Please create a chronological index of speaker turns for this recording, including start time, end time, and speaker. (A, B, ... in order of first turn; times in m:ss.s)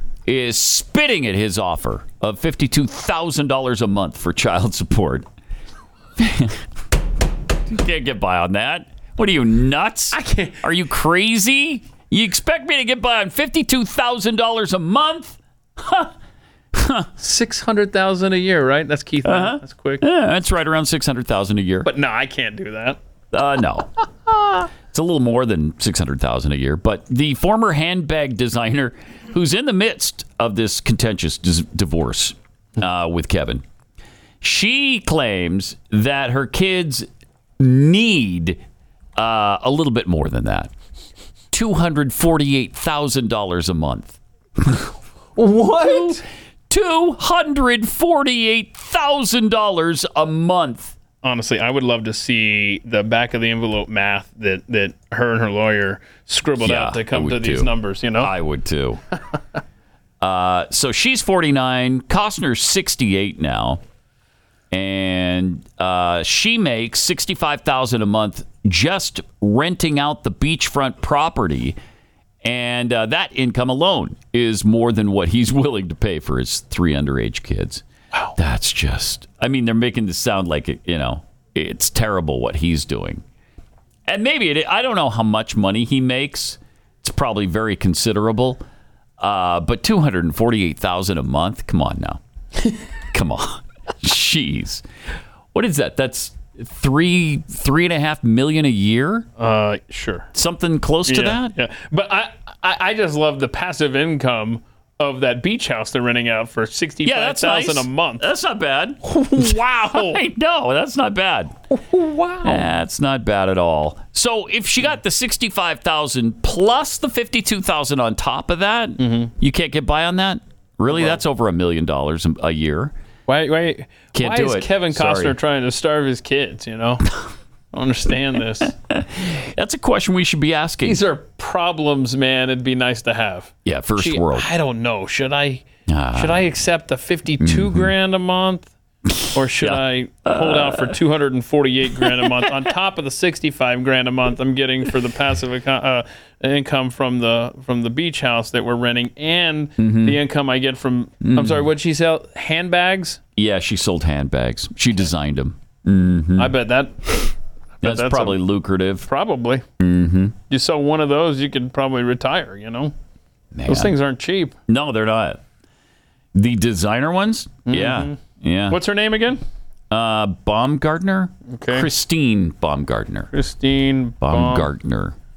0:00.2-0:05.3 A
0:06.2-0:06.6 A
0:07.7-0:16.1 A
0:10.1-0:10.6 B
0:16.7-0:17.1 A
0:17.2-0:20.0 B
0:19.2-0:21.9 A
0:21.8-0:23.0 B
0:23.3-0:33.6 A
0:34.4-0:37.1 A
0:37.6-0:38.6 A
0:39.2-0:40.7 A
0:41.5-0:44.9 A
0:45.4-0:46.2 B
0:45.7-0:50.9 A
0:51.2-0:58.3 B
0:56.6-0:59.0 A
1:00.2-1:03.8 A
1:04.7-1:11.8 A
1:12.4-1:17.8 A
1:18.4-1:23.2 A
1:24.1-1:28.6 A
1:29.2-1:32.2 A
1:33.1-1:34.8 A
1:35.5-1:39.3 A
1:39.4-1:40.3 B
1:40.3-1:41.6 A
1:41.0-1:48.2 B
1:47.0-1:51.6 A
1:49.1-1:50.2 B
1:51.7-1:52.6 B
1:52.4-2:02.9 A
1:59.0-1:59.3 B
2:00.9-2:01.2 B
2:03.3-2:07.1 B
2:04.1-2:05.4 A
2:07.7-2:08.7 B
2:08.6-2:11.0 A
2:10.8-2:18.7 B
2:13.6-2:14.5 A
2:15.9-2:16.4 A
2:17.4-2:17.9 A
2:19.1-2:21.0 A
2:19.3-2:33.2 B
2:21.9-2:22.5 A
2:29.8-2:30.2 A
2:31.2-2:31.7 A
2:33.4-2:36.6 A
2:36.4-2:38.4 B
2:37.8-2:39.1 A
2:39.0-2:39.6 B
2:39.8-2:40.3 A
2:40.5-2:42.9 B
2:43.5-2:43.9 A
2:43.7-2:44.5 B
2:44.7-2:45.4 A
2:46.3-2:48.8 A
2:47.7-2:49.4 B
2:49.9-2:53.3 A
2:51.5-2:51.9 B
2:53.3-2:54.7 B
2:54.2-2:55.2 A